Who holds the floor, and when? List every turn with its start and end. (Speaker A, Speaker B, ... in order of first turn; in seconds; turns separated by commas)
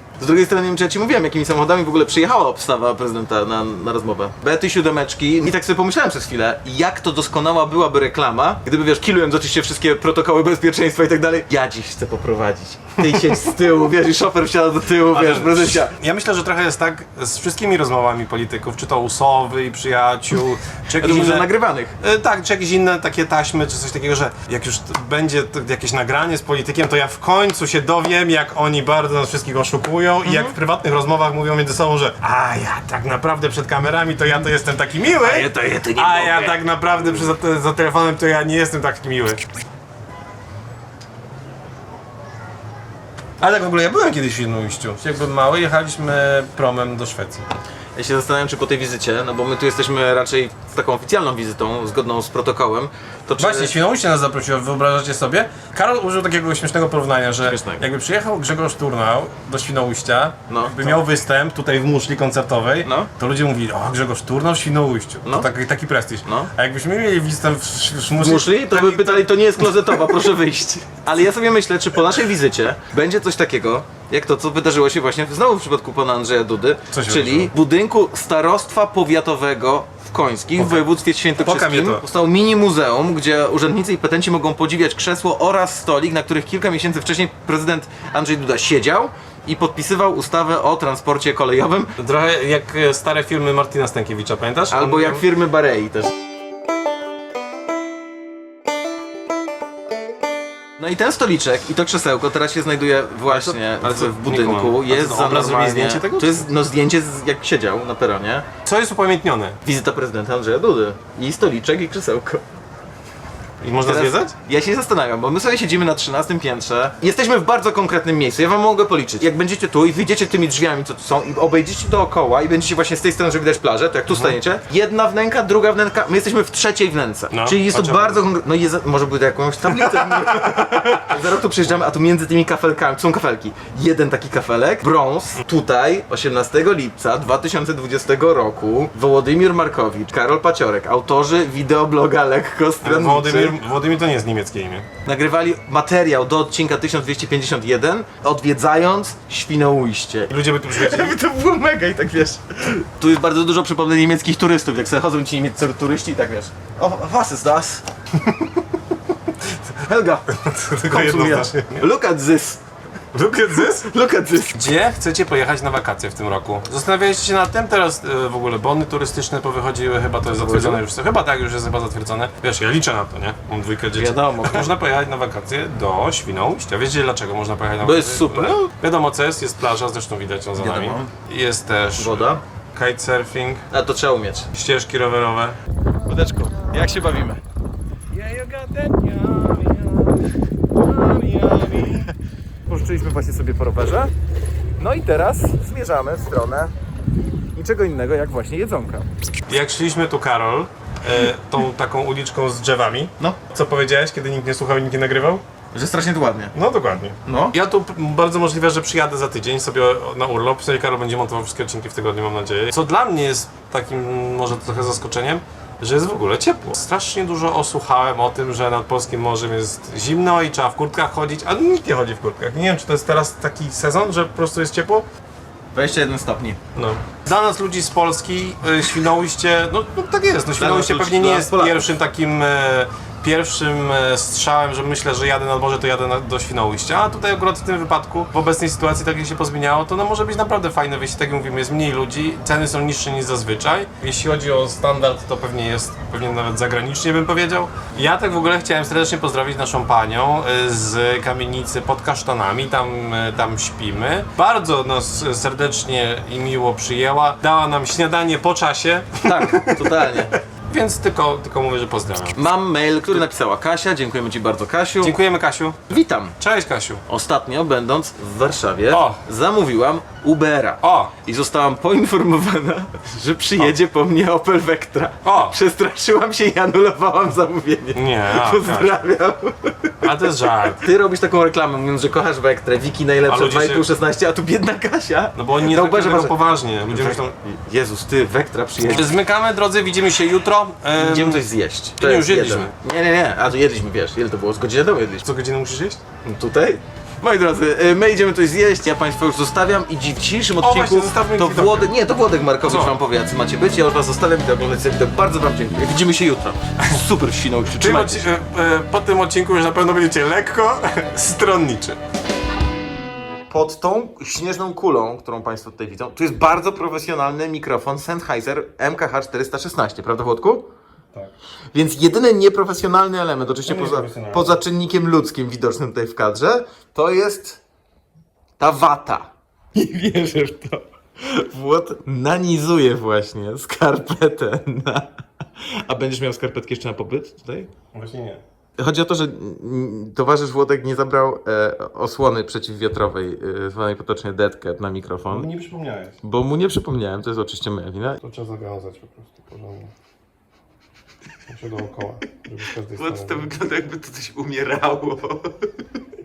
Speaker A: 0.2-15.9, Speaker B: 15.1-21.5, Speaker A: 21.0-22.0, Speaker B: 22.0-39.4, Speaker A: 30.2-30.6, Speaker A: 35.2-37.3, Speaker B: 43.4-47.5, Speaker A: 48.0-53.8, Speaker B: 53.4-70.2, Speaker A: 57.4-57.8, Speaker A: 60.5-61.0, Speaker A: 62.8-63.1, Speaker A: 66.2-66.5, Speaker A: 68.2-91.9, Speaker B: 76.9-77.5, Speaker B: 80.6-82.0, Speaker B: 92.0-95.2, Speaker A: 94.7-96.1, Speaker A: 100.8-108.5, Speaker B: 103.3-106.5, Speaker B: 108.7-109.6, Speaker A: 109.7-112.4, Speaker B: 113.6-114.3, Speaker A: 113.8-143.6, Speaker B: 124.1-124.4, Speaker B: 127.3-128.2, Speaker B: 130.1-130.8, Speaker B: 142.8-144.9, Speaker A: 145.1-157.8, Speaker B: 150.3-151.2, Speaker A: 159.7-162.6, Speaker B: 160.5-161.8, Speaker A: 163.1-164.6, Speaker B: 164.5-183.7, Speaker A: 170.2-170.8, Speaker A: 173.9-174.7, Speaker A: 177.8-178.7, Speaker A: 180.6-181.1, Speaker A: 182.0-182.4, Speaker A: 183.7-184.5, Speaker B: 184.5-185.6, Speaker A: 186.1-187.4, Speaker B: 188.1-190.1, Speaker B: 190.8-192.1, Speaker A: 192.7-194.1, Speaker A: 194.8-196.7, Speaker A: 197.5-199.1, Speaker B: 199.5-205.4, Speaker A: 205.7-206.5, Speaker B: 206.5-225.1, Speaker A: 207.2-207.6, Speaker A: 225.7-226.6, Speaker B: 226.8-259.9, Speaker A: 230.6-231.9, Speaker A: 259.2-260.3, Speaker B: 260.7-262.4, Speaker A: 262.3-265.1, Speaker B: 265.0-265.8, Speaker A: 265.9-266.4, Speaker B: 266.4-267.0, Speaker A: 267.1-280.1, Speaker B: 268.9-269.2, Speaker B: 270.8-271.1, Speaker B: 275.2-275.6, Speaker B: 277.9-279.1, Speaker B: 280.0-280.8, Speaker A: 280.7-286.4, Speaker B: 283.3-283.9, Speaker B: 285.4-287.3, Speaker A: 286.9-289.1, Speaker B: 288.9-291.4, Speaker A: 291.0-295.2, Speaker B: 292.0-292.8, Speaker B: 295.2-296.0, Speaker A: 296.2-308.3, Speaker B: 300.6-301.9, Speaker B: 302.6-302.9, Speaker B: 307.8-312.0, Speaker A: 313.5-320.7, Speaker A: 321.7-327.6, Speaker B: 323.6-324.6, Speaker A: 328.6-337.7, Speaker B: 337.9-338.4, Speaker A: 338.8-345.5, Speaker B: 345.3-346.2, Speaker A: 346.2-348.2, Speaker B: 348.2-349.9, Speaker B: 351.5-353.5, Speaker A: 353.0-355.9